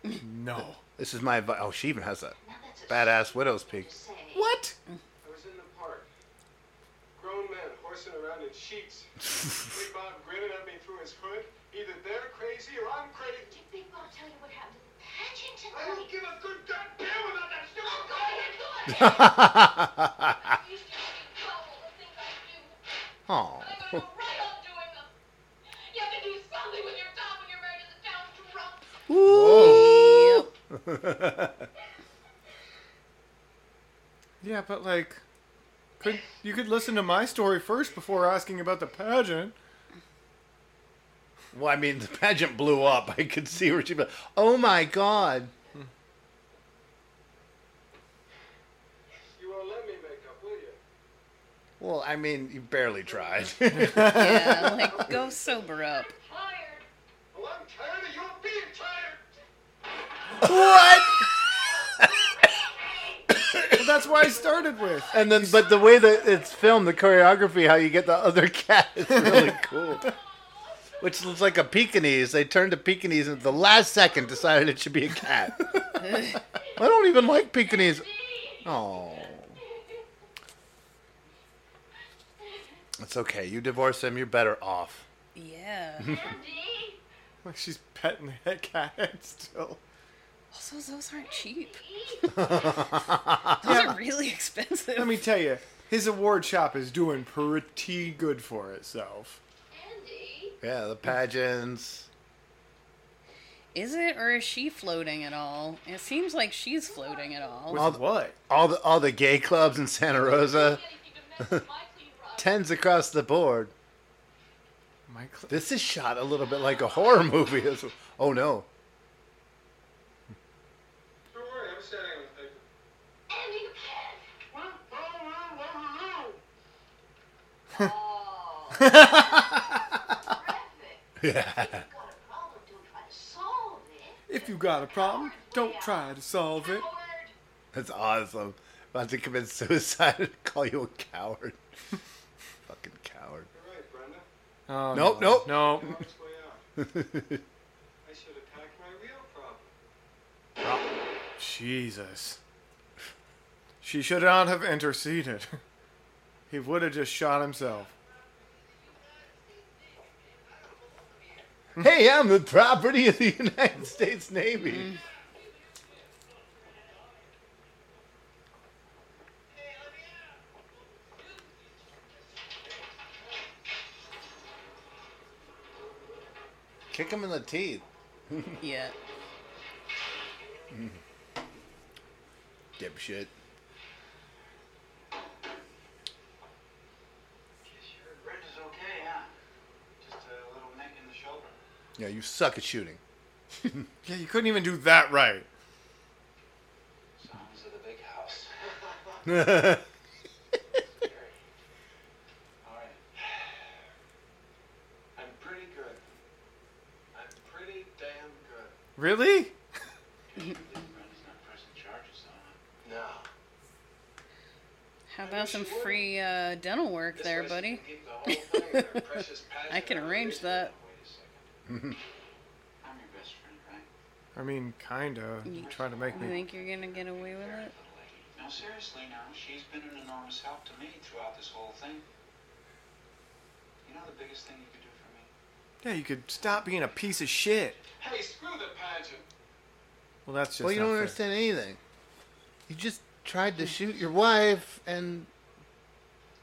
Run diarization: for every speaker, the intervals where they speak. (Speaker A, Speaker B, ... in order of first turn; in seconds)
Speaker A: 0.2-0.8, 29.4-29.8, 34.4-35.2, 36.0-39.5, 53.7-54.6, 63.7-65.6, 69.1-69.4, 87.4-89.8, 95.0-99.4, 107.7-108.4, 115.1-115.6, 128.8-129.1, 134.3-136.9, 144.7-145.9, 151.4-152.4, 153.8-155.6, 156.5-157.9, 194.0-195.5, 209.0-209.5, 224.3-226.4, 235.8-237.8, 240.2-241.2
Speaker B: 1.0-2.4, 2.9-4.5, 18.9-20.5, 23.3-24.0, 29.1-31.7, 41.5-45.5, 51.8-55.1, 60.4-61.3, 63.5-63.8, 65.1-70.1, 71.0-76.2, 76.8-78.1, 78.6-79.6, 83.0-85.0, 86.0-86.3, 92.3-94.0, 100.6-102.1, 107.8-110.8, 112.4-113.7, 115.5-118.7, 131.2-131.8, 137.7-141.6, 142.7-143.5, 144.9-145.8, 146.8-147.4, 161.8-164.9, 176.9-178.6, 182.8-183.3, 192.0-193.0, 199.3-199.8, 221.7-222.0, 240.6-241.8, 242.7-245.3
Speaker C: 2.4-4.5, 13.4-16.1, 18.0-19.6, 20.3-22.9, 23.6-25.1, 25.7-28.9, 56.2-56.9, 62.4-63.4, 77.6-79.5, 82.4-82.7, 86.0-87.0, 91.2-92.5, 99.7-100.6, 107.0-107.5, 110.2-112.6, 123.3-124.3, 127.7-137.3
Speaker D: 5.2-6.1, 7.2-13.5, 15.7-18.5, 49.3-50.8, 57.3-59.3, 121.3-122.6, 124.5-126.3, 143.5-144.2, 145.7-146.6, 148.1-149.7, 205.2-206.0, 207.1-208.7, 212.8-213.3, 215.2-216.0, 218.4-220.1, 238.0-239.3
Speaker E: 29.3-30.5, 54.0-56.1, 85.3-86.1, 90.5-92.4, 93.6-95.1, 103.7-107.9, 178.6-178.9, 215.1-219.0, 219.7-220.7, 225.5-227.7
Speaker F: 187.7-189.3, 190.0-191.6, 197.2-198.5, 200.9-201.3, 202.6-203.0, 210.3-212.6, 217.1-218.5, 219.3-221.5, 222.8-223.9, 225.5-232.0, 233.8-235.3